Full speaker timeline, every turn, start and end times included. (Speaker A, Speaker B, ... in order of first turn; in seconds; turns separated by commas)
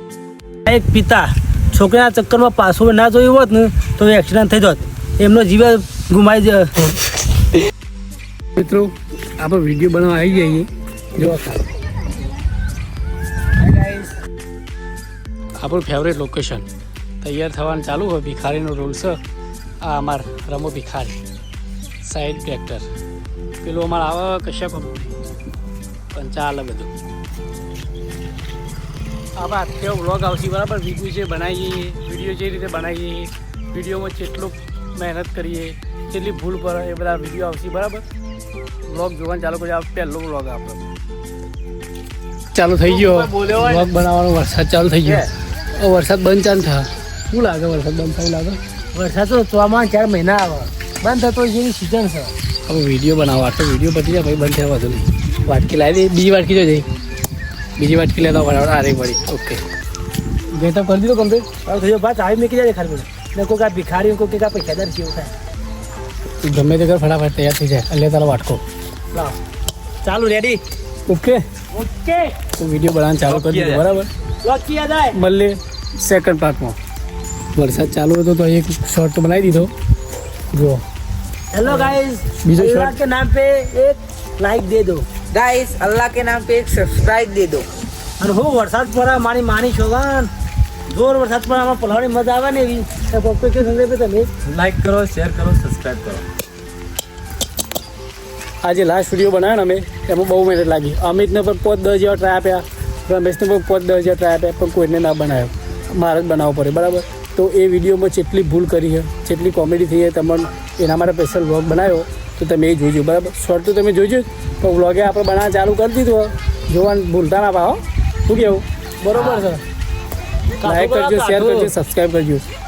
Speaker A: 0.7-6.7, Speaker B: 8.6-11.6, Speaker A: 13.6-14.1, Speaker B: 15.6-16.7, Speaker B: 17.2-19.2, Speaker B: 19.8-21.2, Speaker B: 22.0-22.9, Speaker B: 23.6-25.1, Speaker B: 26.1-26.9, Speaker B: 29.4-38.0, Speaker B: 38.9-40.8, Speaker B: 42.5-45.3, Speaker A: 42.9-43.9, Speaker A: 45.0-45.3, Speaker B: 45.8-48.6, Speaker A: 48.9-52.3, Speaker B: 52.7-56.9, Speaker B: 57.8-59.6, Speaker B: 60.5-61.5, Speaker A: 61.6-65.3, Speaker B: 66.4-68.6, Speaker A: 70.0-70.6, Speaker B: 71.1-71.4, Speaker A: 71.7-72.3, Speaker B: 72.6-74.1, Speaker C: 73.3-73.8, Speaker A: 74.4-75.2, Speaker B: 75.2-76.8, Speaker B: 77.5-79.7, Speaker B: 80.5-80.8, Speaker A: 81.5-85.1, Speaker B: 81.7-83.0, Speaker D: 85.3-87.7, Speaker A: 88.2-90.3, Speaker A: 90.9-94.4, Speaker C: 94.5-96.2, Speaker B: 98.6-119.6, Speaker A: 119.0-119.5, Speaker A: 120.6-121.7, Speaker B: 120.6-122.4